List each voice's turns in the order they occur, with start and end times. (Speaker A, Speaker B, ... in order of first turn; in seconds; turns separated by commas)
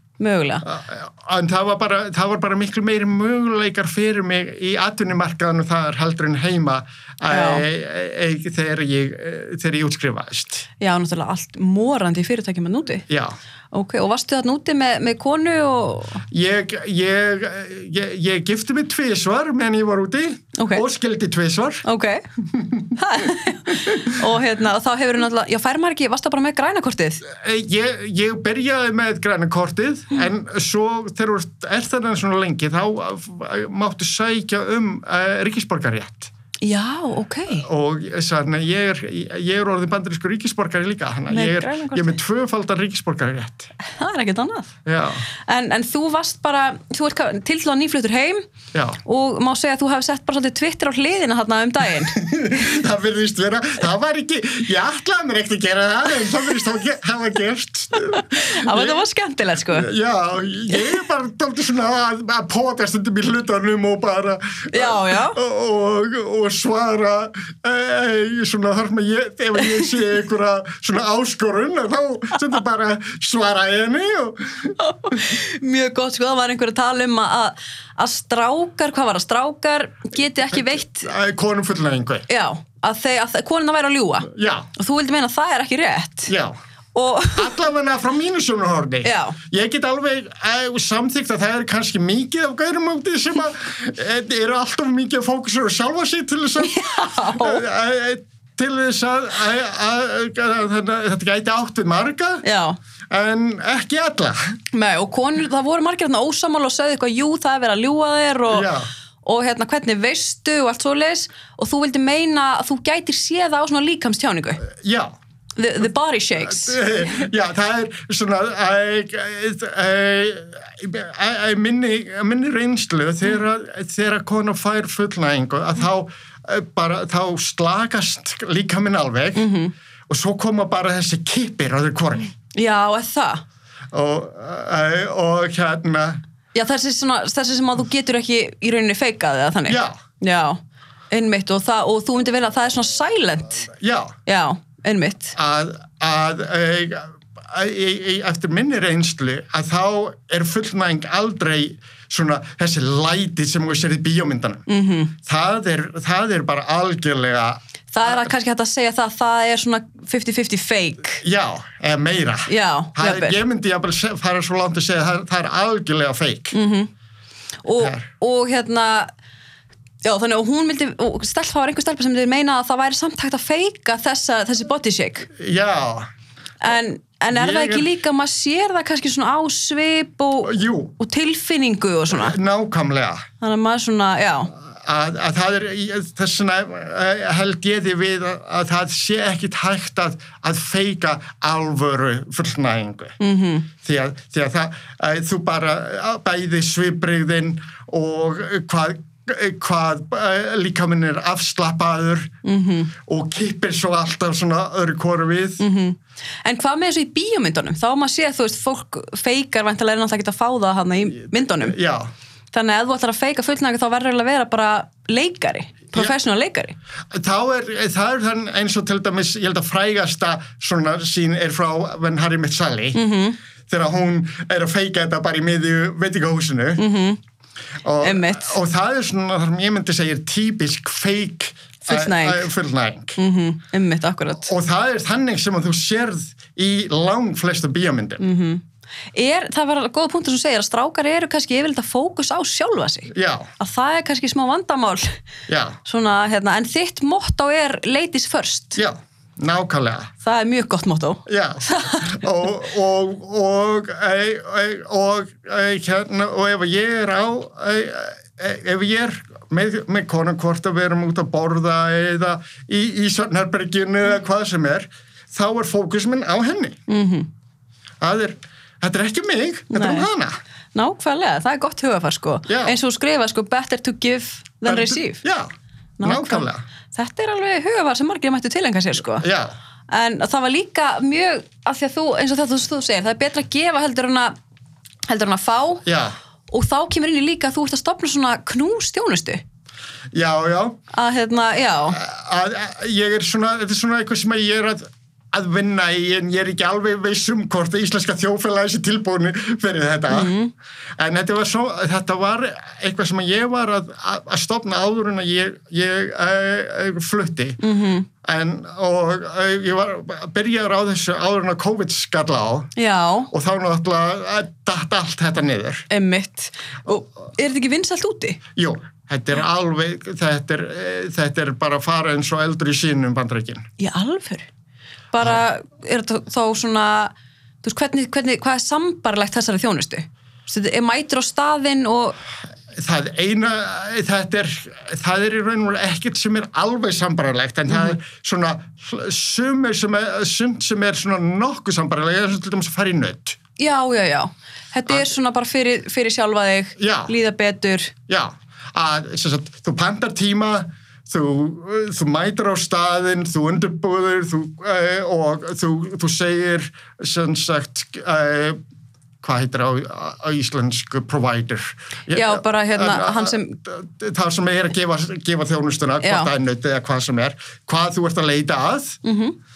Speaker A: 0.2-0.7, Speaker B: 0.6-10.7, Speaker A: 7.3-7.6, Speaker A: 10.8-13.0, Speaker B: 13.1-13.3, Speaker A: 13.7-16.2, Speaker B: 16.3-21.8, Speaker A: 20.6-20.8, Speaker A: 21.8-22.2, Speaker B: 22.5-23.0, Speaker A: 22.9-27.2, Speaker B: 23.9-24.1, Speaker B: 27.2-36.3, Speaker A: 36.6-37.6, Speaker B: 37.5-43.7, Speaker A: 41.3-42.1, Speaker A: 43.8-44.7, Speaker B: 44.9-45.3, Speaker A: 45.4-48.5, Speaker B: 48.7-49.0, Speaker A: 49.0-52.1, Speaker B: 52.1-59.0, Speaker A: 58.1-59.9, Speaker B: 59.7-74.7, Speaker A: 64.7-65.4, Speaker A: 74.8-81.1, Speaker B: 80.5-82.2, Speaker A: 82.3-86.3, Speaker B: 84.3-84.7, Speaker B: 86.3-86.6, Speaker A: 86.9-87.5, Speaker B: 87.3-102.4, Speaker A: 89.0-89.4, Speaker A: 96.6-97.6, Speaker A: 102.4-102.8, Speaker B: 103.1-104.4, Speaker A: 104.7-108.7, Speaker B: 108.5-108.9, Speaker A: 109.2-114.6, Speaker B: 114.8-115.1, Speaker A: 115.5-117.1, Speaker B: 116.4-129.4, Speaker A: 129.3-129.7, Speaker B: 130.1-132.3, Speaker A: 132.5-133.4, Speaker B: 133.9-136.2, Speaker A: 136.5-143.7, Speaker B: 139.7-140.0, Speaker B: 143.8-144.1, Speaker A: 144.2-145.3, Speaker B: 145.3-154.6, Speaker A: 154.7-155.1, Speaker B: 155.2-158.3, Speaker A: 157.9-161.2, Speaker B: 161.2-166.5, Speaker A: 162.5-163.4, Speaker A: 166.5-166.9, Speaker A: 167.6-169.1, Speaker B: 167.8-168.1, Speaker A: 170.0-175.3, Speaker B: 175.3-176.1, Speaker A: 176.6-182.3, Speaker B: 177.3-177.9, Speaker B: 180.4-180.9, Speaker B: 182.1-183.2, Speaker A: 183.4-184.5, Speaker B: 184.6-193.2, Speaker A: 193.2-193.7, Speaker B: 193.8-202.3, Speaker A: 202.4-202.9, Speaker B: 203.1-205.6, Speaker A: 205.6-211.8, Speaker B: 211.5-212.1, Speaker A: 212.5-216.8, Speaker B: 217.1-223.0, Speaker A: 222.9-223.4, Speaker B: 223.7-226.8, Speaker A: 226.8-227.2, Speaker B: 227.8-233.2, Speaker A: 228.0-228.6, Speaker A: 231.9-232.5, Speaker A: 233.2-234.5, Speaker B: 234.4-238.2, Speaker A: 238.2-245.2, Speaker B: 243.1-243.5, Speaker B: 245.5-245.8, Speaker A: 245.8-248.8, Speaker B: 248.8-250.1, Speaker A: 250.2-252.2, Speaker B: 251.2-266.8, Speaker A: 266.9-267.3, Speaker B: 268.0-270.4, Speaker A: 269.7-270.1, Speaker A: 270.7-275.2, Speaker B: 272.5-272.8, Speaker B: 274.6-275.5, Speaker A: 276.0-279.2, Speaker B: 276.0-276.6, Speaker B: 279.2-279.5, Speaker A: 279.9-284.4, Speaker A: 285.1-285.8, Speaker B: 285.9-286.1, Speaker A: 286.5-289.4, Speaker B: 290.1-290.8, Speaker A: 290.9-292.0, Speaker B: 291.9-300.3, Speaker A: 300.1-300.5, Speaker B: 301.0-307.6, Speaker A: 307.6-308.1, Speaker B: 308.2-312.7, Speaker A: 312.8-313.3, Speaker B: 313.3-315.9, Speaker A: 315.9-318.4, Speaker B: 318.6-323.6, Speaker A: 323.8-324.5, Speaker A: 325.1-332.2, Speaker B: 332.8-343.4, Speaker A: 337.7-338.0, Speaker A: 343.6-347.9, Speaker B: 346.8-347.1, Speaker B: 348.1-358.6, Speaker B: 359.2-369.0, Speaker A: 362.1-363.6, Speaker A: 366.0-366.3, Speaker A: 369.0-369.4